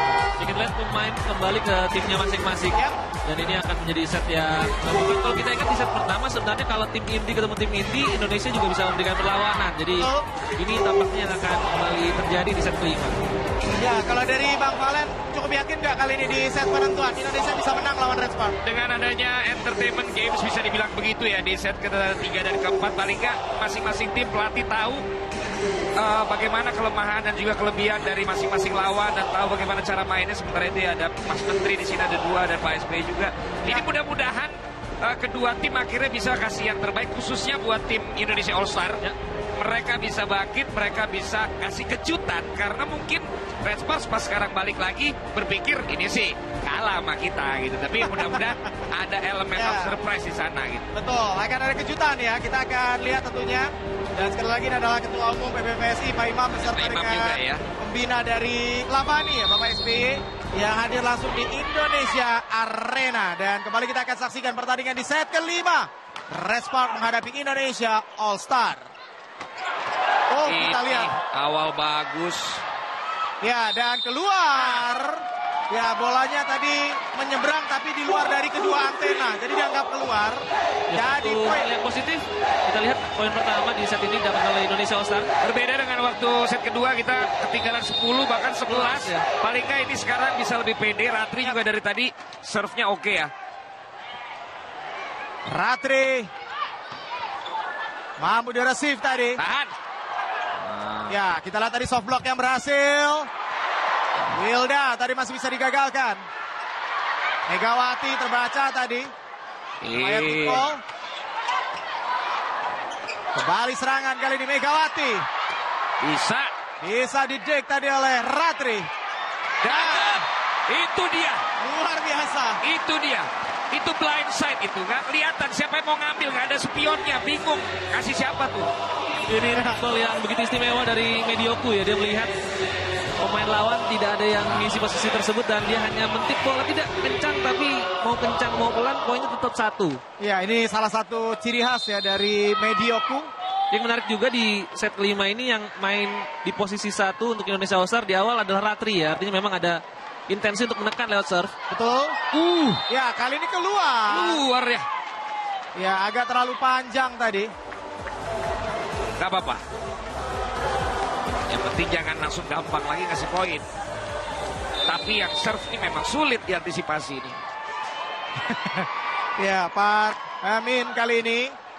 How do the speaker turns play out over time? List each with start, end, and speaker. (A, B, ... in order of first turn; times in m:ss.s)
0:00.4-0:13.2 A
0:10.0-0:10.3 B
0:13.8-0:18.6 B
0:18.6-0:25.0 C
0:26.0-0:39.0 C
0:33.6-0:33.9 B
0:39.6-0:50.9 C
0:48.0-0:48.8 B
0:49.5-0:50.0 B
0:50.9-1:08.9 B
0:56.6-0:57.6 C
1:10.3-1:11.1 B
1:10.4-1:12.6 C
1:13.4-1:21.7 B
1:20.9-1:25.3 A
1:25.4-1:33.3 C
1:28.7-1:29.2 A
1:35.5-1:36.3 B
1:38.2-1:39.4 B
1:39.4-1:39.7 C
1:40.6-1:41.2 C
1:41.1-1:43.3 B
1:44.3-1:46.2 B
1:47.5-1:49.1 B
1:49.8-1:50.7 C
1:50.0-1:50.8 B
1:53.3-1:55.2 B
1:56.0-1:56.5 C
1:56.8-1:58.9 B
1:59.6-2:01.4 C
1:59.6-2:00.3 B
2:01.6-2:02.6 B
2:02.6-2:08.7 C
2:09.3-2:12.3 A
2:09.5-2:09.8 B
2:13.2-2:20.0 A
2:20.2-2:23.3 B
2:23.7-2:31.5 A
2:31.7-2:32.2 B
2:32.3-2:32.8 C
2:32.9-2:34.4 B
2:34.1-2:34.9 C
2:35.8-2:37.5 B
2:39.2-2:39.6 C
2:41.5-2:43.7 C
2:44.9-2:47.4 C
2:48.4-2:51.6 B